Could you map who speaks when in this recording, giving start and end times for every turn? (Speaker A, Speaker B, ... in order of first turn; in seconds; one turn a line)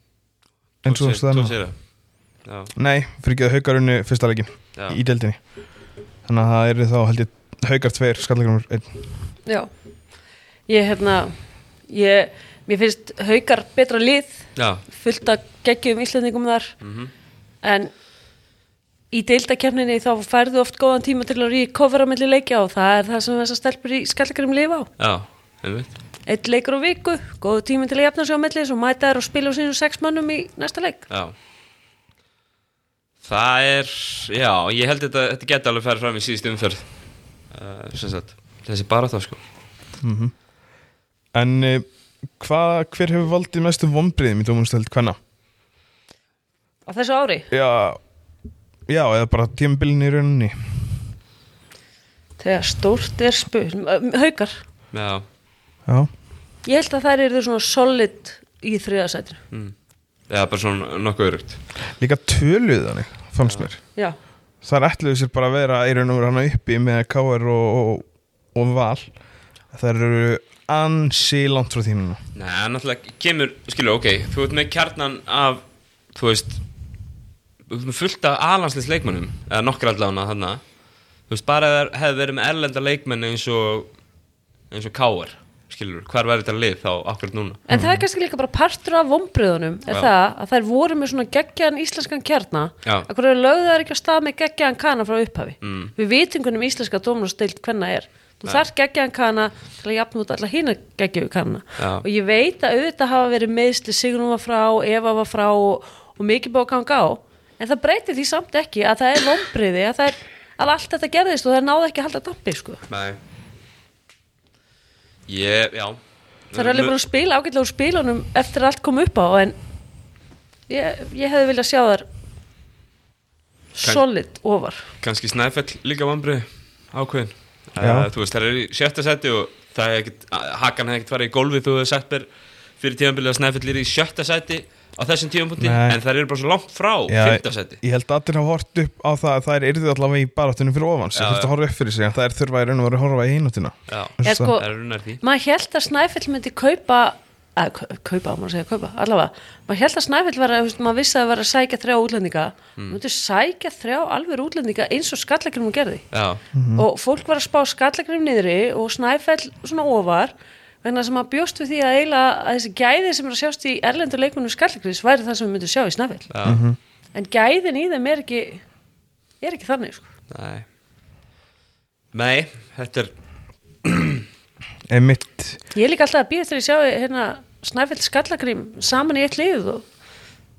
Speaker A: 0.8-1.6
Speaker B: 0.8-1.8
Speaker B: 2.4-2.7
Speaker A: 2.8-5.4
Speaker A: 6.2-9.0
Speaker C: 10.7-11.3
Speaker C: 11.9-16.7
Speaker B: 14.6-14.8
Speaker B: 16.8-17.1
Speaker C: 17.6-17.9
Speaker C: 19.1-24.9
Speaker B: 25.0-25.9
Speaker C: 26.3-31.1
Speaker B: 33.2-36.9
Speaker B: 37.5-39.4
Speaker A: 40.0-40.3
Speaker A: 41.3-41.8
Speaker A: 42.4-45.2
Speaker C: 46.9-47.5
Speaker A: 47.5-48.0
Speaker A: 48.9-50.7
Speaker C: 52.4-54.6
Speaker B: 54.9-55.2
Speaker C: 56.6-59.4
Speaker B: 60.3-61.6
Speaker A: 62.0-63.8
Speaker A: 64.6-69.1
Speaker A: 69.7-72.2
Speaker B: 72.3-75.6
Speaker B: 76.1-76.6
Speaker B: 77.7-80.6
Speaker B: 81.3-83.9
Speaker B: 84.7-87.6
Speaker C: 87.7-112.8
Speaker A: 87.7-88.0
Speaker B: 95.6-95.9
Speaker B: 101.8-102.0
Speaker B: 112.9-113.2
Speaker B: 115.3-116.0
Speaker B: 116.5-116.9
Speaker C: 116.5-119.5
Speaker C: 120.7-122.0
Speaker C: 123.8-124.8
Speaker B: 125.0-132.3
Speaker A: 127.8-128.1
Speaker B: 132.8-137.8
Speaker A: 135.6-136.0
Speaker A: 137.1-144.6
Speaker B: 141.1-141.5
Speaker B: 143.9-145.2
Speaker C: 144.2-144.6
Speaker C: 145.2-156.0
Speaker B: 156.1-156.4
Speaker A: 156.5-156.8
Speaker C: 156.7-166.3
Speaker B: 166.3-166.6
Speaker A: 166.4-166.8
Speaker C: 167.1-168.6
Speaker C: 169.4-170.0
Speaker B: 170.3-170.7
Speaker B: 172.1-173.1
Speaker B: 173.8-174.2
Speaker A: 174.9-175.6
Speaker C: 175.7-179.8